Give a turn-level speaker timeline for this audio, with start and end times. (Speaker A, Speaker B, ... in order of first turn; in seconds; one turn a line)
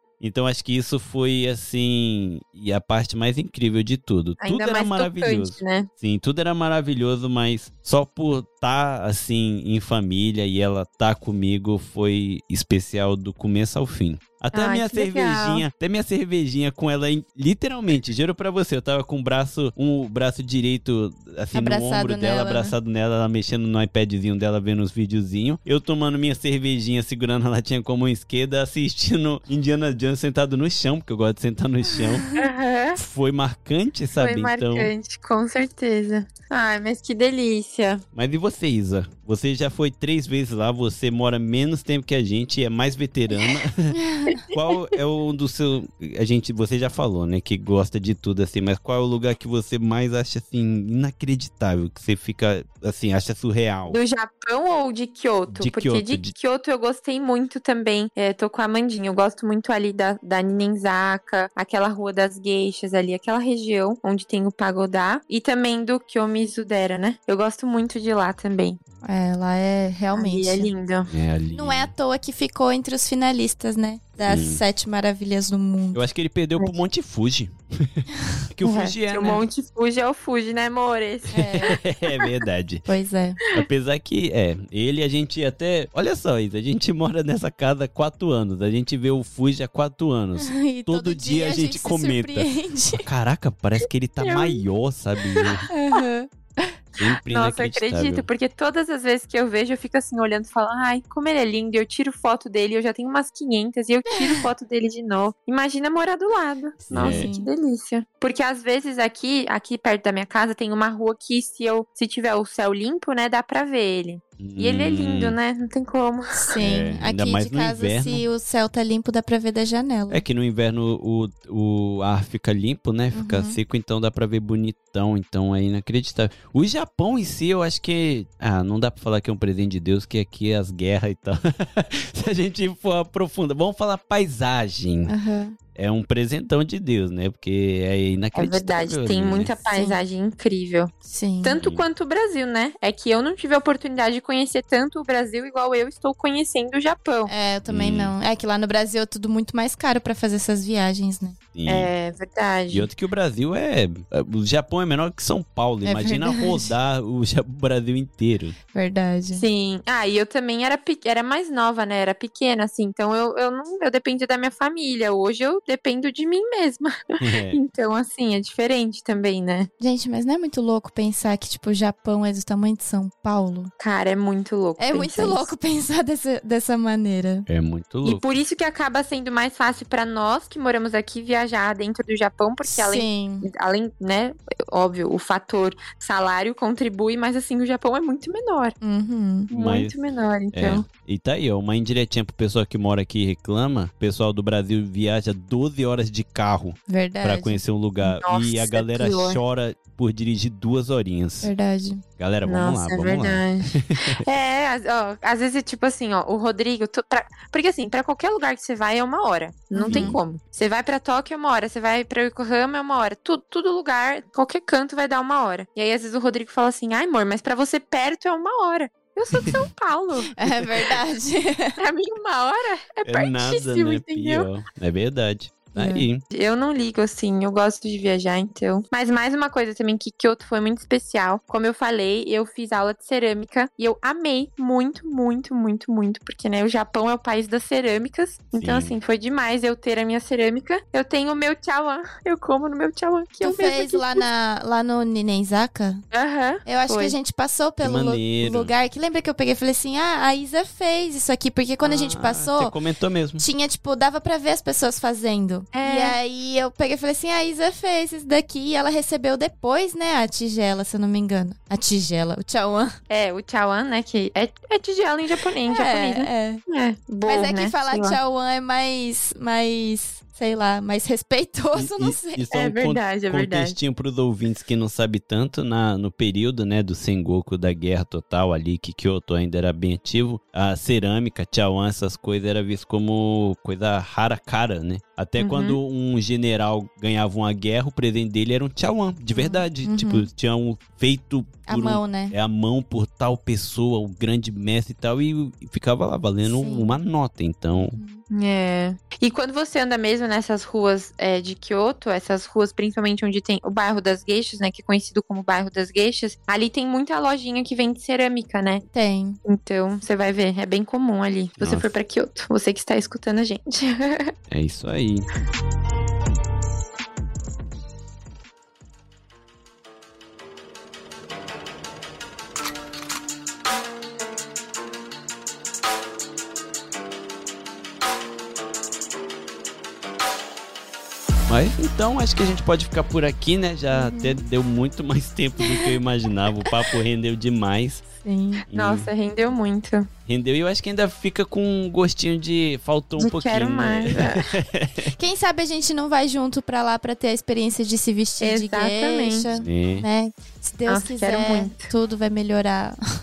Speaker A: 0.2-32.3
Speaker B: 4.4-5.9
Speaker B: 14.5-15.6
Speaker C: 21.5-22.8
Speaker B: 32.4-33.0
Speaker A: 33.0-34.9
Speaker B: 34.2-38.0
Speaker A: 38.1-44.0
Speaker C: 43.9-44.4
Speaker B: 44.4-44.9
Speaker A: 44.5-54.0
Speaker B: 53.9-68.8
Speaker A: 55.5-56.3
Speaker C: 69.0-70.7
Speaker B: 70.1-71.1
Speaker A: 71.1-71.9
Speaker C: 71.5-76.0
Speaker A: 74.2-74.6
Speaker A: 75.9-79.4
Speaker B: 78.6-82.3
Speaker C: 81.3-81.8
Speaker A: 81.4-82.8
Speaker C: 82.8-83.4
Speaker A: 83.5-95.7
Speaker C: 90.4-93.1
Speaker B: 94.2-94.6
Speaker B: 95.3-96.0
Speaker C: 95.7-96.8
Speaker A: 97.0-98.3
Speaker B: 97.3-116.5
Speaker C: 104.1-104.5
Speaker C: 106.8-107.5
Speaker A: 106.9-107.3
Speaker A: 114.4-115.4
Speaker C: 116.3-120.2
Speaker A: 116.6-118.2
Speaker A: 120.1-135.1
Speaker C: 123.1-123.6
Speaker C: 135.1-135.6
Speaker A: 135.8-139.5
Speaker B: 138.3-147.3
Speaker C: 139.7-140.0
Speaker C: 141.1-141.6
Speaker C: 147.3-151.4
Speaker A: 147.7-148.2
Speaker A: 151.5-151.9
Speaker B: 151.7-152.9
Speaker A: 152.7-158.6
Speaker C: 155.8-156.7
Speaker C: 158.7-159.4
Speaker B: 159.3-169.7
Speaker A: 167.2-167.6
Speaker C: 169.8-173.7
Speaker B: 173.8-175.5
Speaker C: 174.8-177.5
Speaker A: 177.5-178.3
Speaker B: 178.0-188.8
Speaker C: 182.7-183.5
Speaker C: 188.8-189.5
Speaker B: 189.5-190.8
Speaker A: 189.5-189.9
Speaker A: 190.5-201.5
Speaker C: 196.9-197.6
Speaker B: 198.0-199.4
Speaker C: 201.4-202.0
Speaker A: 202.2-204.2
Speaker B: 202.4-220.3
Speaker C: 209.8-210.2
Speaker A: 209.8-210.2
Speaker A: 219.4-219.7
Speaker C: 220.3-221.8
Speaker B: 221.8-224.5
Speaker A: 223.1-226.2
Speaker C: 225.8-226.1
Speaker B: 226.3-244.2
Speaker A: 238.6-239.0
Speaker C: 243.4-246.0
Speaker B: 246.1-247.2
Speaker C: 246.7-252.8
Speaker A: 247.8-248.7
Speaker A: 251.8-253.4
Speaker C: 253.4-262.9
Speaker B: 255.7-256.2
Speaker B: 263.1-268.2
Speaker C: 265.7-266.6
Speaker C: 267.2-272.5
Speaker A: 271.7-298.0
Speaker B: 272.5-273.8
Speaker B: 285.4-285.8
Speaker C: 289.3-290.3
Speaker C: 291.7-292.4
Speaker C: 296.4-296.9
Speaker C: 297.9-298.2
Speaker B: 298.3-308.9
Speaker C: 308.9-309.4
Speaker B: 309.4-314.3
Speaker A: 311.6-311.9
Speaker A: 314.5-315.3
Speaker A: 331.5-338.1
Speaker C: 333.9-334.4
Speaker C: 335.6-335.9
Speaker C: 338.2-338.6
Speaker A: 338.7-339.1
Speaker B: 338.7-340.1
Speaker A: 340.3-345.1
Speaker B: 343.2-344.5
Speaker C: 345.1-353.0
Speaker B: 348.4-349.5
Speaker A: 349.5-350.1
Speaker B: 350.9-351.9